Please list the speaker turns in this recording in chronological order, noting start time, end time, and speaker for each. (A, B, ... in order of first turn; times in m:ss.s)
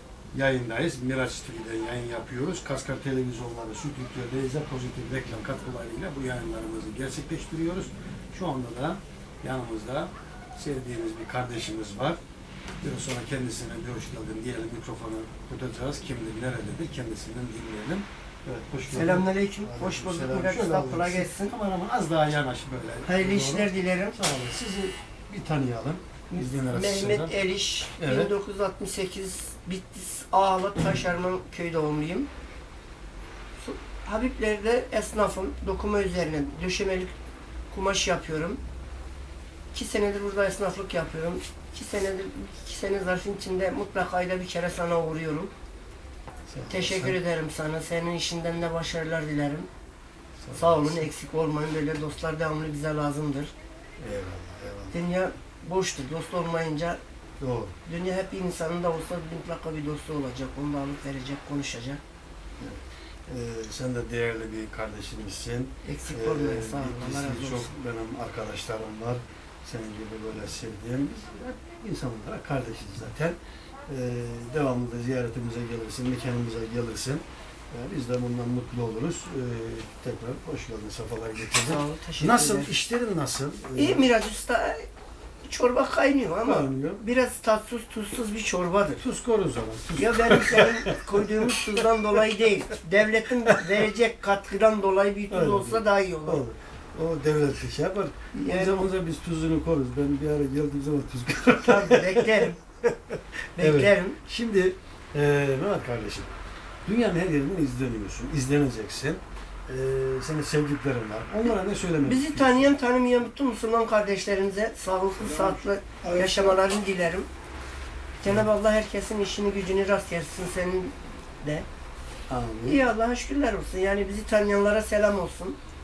0:00.3-0:12.2 A
0:12.8-0:27.3 A
0:18.9-0:21.5 B
0:23.0-0:24.2 B
0:26.3-0:32.3 B
0:28.0-0:28.3 A
0:33.6-0:37.1 B
0:37.7-0:38.6 B
0:39.7-0:45.5 B
0:46.5-0:47.2 A
0:46.7-0:49.7 B
0:50.4-0:51.1 A
0:50.5-0:53.5 B
0:54.0-0:55.0 A
0:54.9-0:57.0 B
0:57.4-0:57.8 A
0:57.8-1:02.0 B
1:02.6-1:24.1 A
1:05.8-1:07.7 B
1:21.6-1:22.7 B
1:23.8-1:24.9 B
1:25.4-1:29.0 B
1:26.4-1:27.0 A
1:29.0-1:31.7 A
1:30.0-1:36.4 B
1:33.4-1:33.8 A
1:35.3-1:46.3 A
1:38.3-1:38.8 B
1:41.6-1:42.6 B
1:43.6-1:44.2 B
1:46.8-1:52.7 A
1:52.0-1:57.3 B
1:55.2-1:56.6 A
1:58.2-2:01.6 B
2:02.3-2:02.8 A
2:02.6-2:05.6 B